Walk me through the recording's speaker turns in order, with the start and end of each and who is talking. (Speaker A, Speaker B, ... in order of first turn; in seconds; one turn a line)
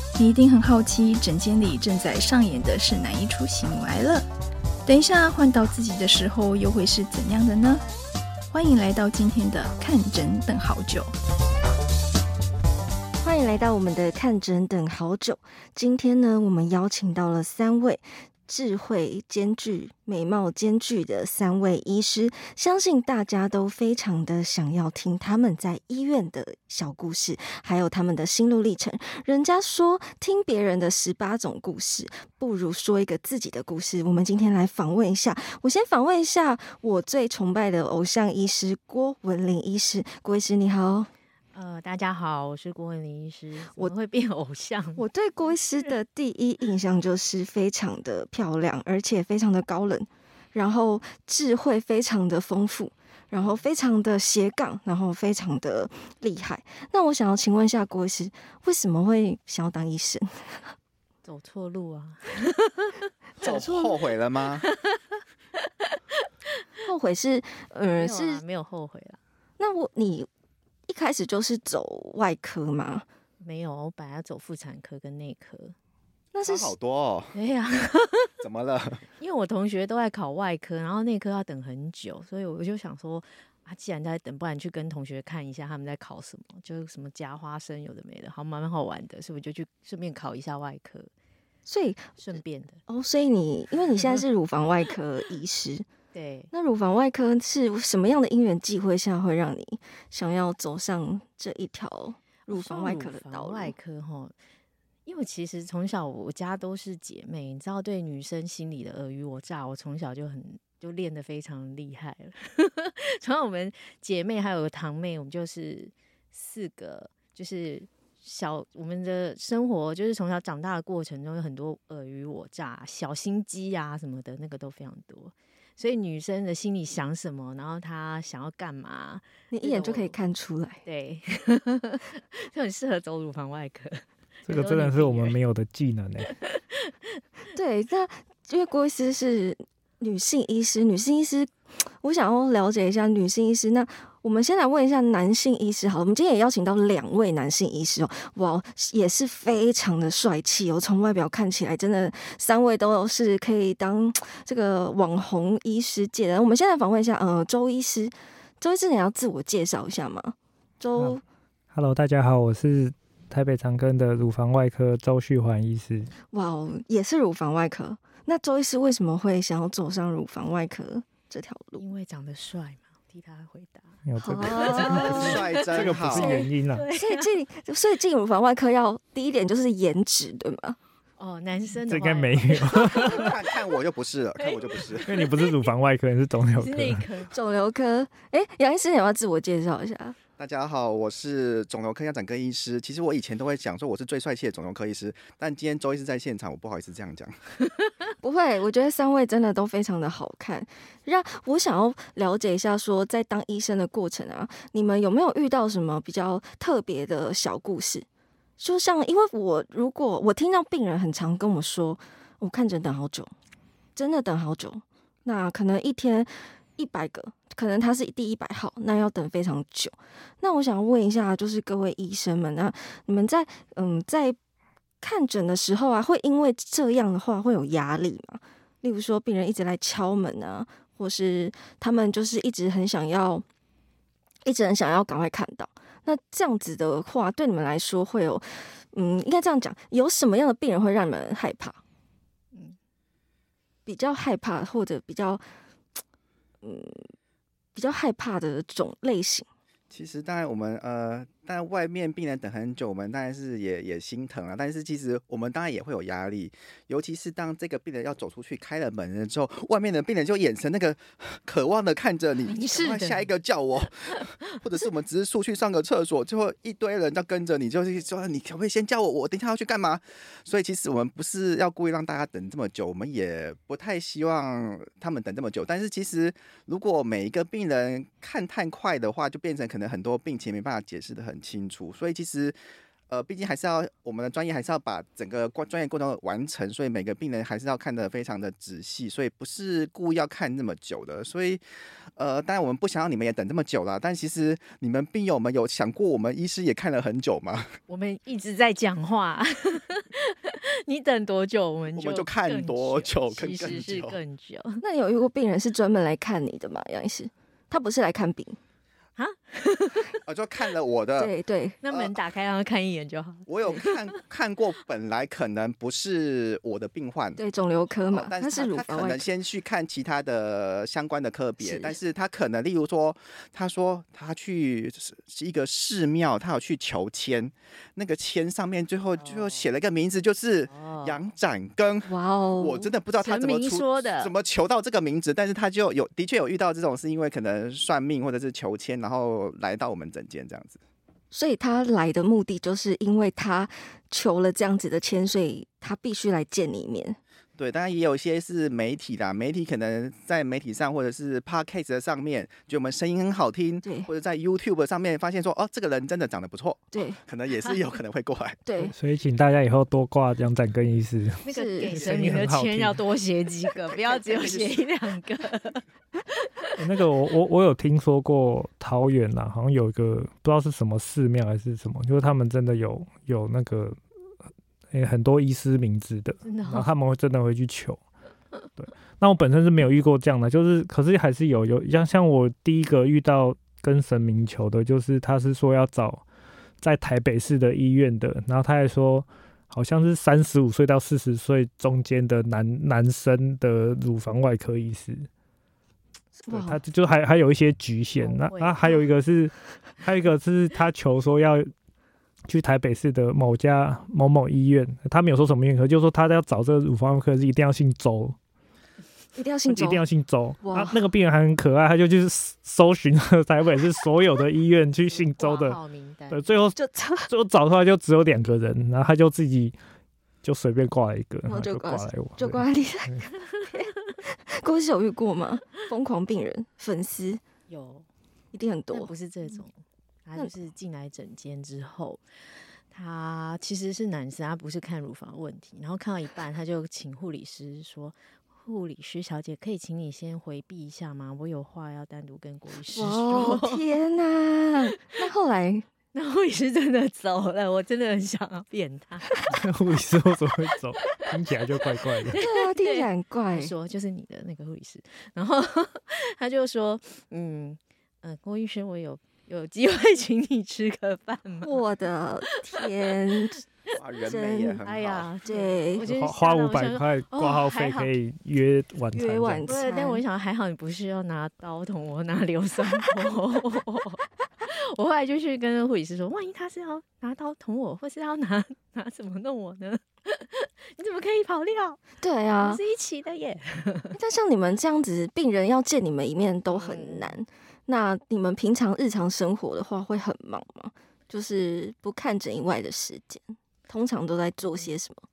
Speaker A: 0.1-4.3
Speaker A: 4.9-7.8
Speaker A: 8.5-11.1
Speaker B: 13.2-41.1
Speaker C: 41.5-46.0
Speaker B: 45.0-60.7
Speaker C: 53.4-53.6
Speaker C: 61.2-63.7
Speaker B: 63.4-63.9
Speaker D: 63.4-64.7
Speaker C: 64.6-66.6
Speaker B: 66.8-68.4
Speaker C: 68.0-69.2
Speaker B: 69.6-70.3
Speaker B: 70.9-73.1
Speaker C: 73.4-75.8
Speaker B: 76.3-76.7
Speaker D: 76.5-77.3
Speaker C: 77.3-78.3
Speaker D: 78.4-79.0
Speaker C: 79.2-91.1
Speaker B: 91.7-95.9
Speaker C: 92.2-92.8
Speaker C: 96.1-96.5
Speaker B: 96.5-103.7
Speaker C: 102.5-104.3
Speaker C: 105.1-130.2
Speaker B: 129.5-130.8
Speaker C: 130.8-135.4
Speaker E: 134.5-136.3
Speaker C: 136.4-137.0
Speaker B: 137.6-161.2
Speaker E: 161.7-166.1
Speaker B: 166.3-171.8
Speaker C: 171.8-177.3
Speaker E: 174.1-176.8
Speaker B: 174.2-175.3
Speaker D: 174.9-176.3
Speaker B: 176.1-180.8
Speaker C: 181.2-183.4
Speaker E: 181.9-183.3
Speaker D: 182.9-185.1
Speaker C: 184.4-185.7
Speaker E: 185.1-187.1
Speaker C: 186.6-187.3
Speaker B: 187.3-190.2
Speaker D: 190.4-197.3
Speaker B: 198.2-208.1
Speaker B: 208.6-213.3
Speaker B: 214.0-224.4
Speaker B: 225.0-233.4
Speaker B: 234.5-241.8
Speaker C: 242.5-242.8
Speaker B: 243.9-245.4
Speaker B: 246.6-247.1
Speaker B: 247.8-249.5
Speaker D: 249.9-282.6
Speaker C: 262.5-263.3
Speaker D: 283.1-291.6
Speaker D: 292.2-297.7
Speaker C: 297.9-304.8
Speaker D: 301.9-304.2
Speaker B: 304.8-308.6
Speaker C: 309.2-310.2
Speaker D: 310.2-311.3
Speaker B: 311.2-311.8
Speaker C: 311.8-314.0
Speaker D: 311.9-312.1
Speaker D: 313.5-317.4
Speaker B: 317.4-319.3
Speaker D: 318.1-340.8
Speaker B: 321.6-322.0
Speaker C: 329.2-329.7
Speaker C: 330.7-331.2
Speaker B: 332.1-332.9
Speaker C: 333.2-334.3
Speaker B: 341.3-347.2
Speaker D: 347.6-358.7
Speaker B: 353.8-354.1
Speaker B: 356.9-357.2
Speaker B: 358.7-358.9
Speaker E: 358.8-361.4
Speaker C: 361.4-365.8
Speaker B: 361.5-362.0
Speaker D: 361.9-362.5
Speaker E: 362.0-363.0
Speaker D: 363.8-364.9
Speaker C: 366.4-366.8
Speaker E: 366.8-374.0
Speaker E: 374.9-378.0
Speaker C: 376.4-376.9
Speaker E: 378.8-386.2
Speaker E: 386.8-395.3
Speaker B: 396.4-396.8
Speaker E: 396.5-401.7
Speaker C: 398.2-398.9
Speaker E: 402.5-408.4
Speaker B: 409.4-410.1
Speaker E: 409.7-415.8
Speaker B: 410.6-411.0
Speaker C: 415.1-416.4
Speaker E: 416.3-416.8
Speaker B: 416.8-417.3
Speaker E: 417.3-419.8
Speaker E: 420.4-423.2
Speaker B: 421.5-427.4
Speaker C: 427.7-428.1
Speaker B: 428.5-429.1
Speaker C: 428.9-432.2
Speaker C: 432.9-443.9
Speaker B: 442.9-445.9
Speaker C: 446.1-449.3
Speaker E: 449.5-452.4
Speaker C: 452.3-461.8
Speaker B: 452.4-453.7
Speaker B: 461.6-463.6
Speaker D: 463.9-465.3
Speaker B: 464.2-464.8
Speaker C: 464.8-468.1
Speaker B: 465.4-466.0
Speaker E: 466.0-469.7
Speaker B: 469.1-470.2
Speaker C: 469.7-482.0
Speaker B: 482.2-482.8
Speaker C: 482.5-484.2
Speaker B: 484.1-495.2
Speaker C: 486.7-487.4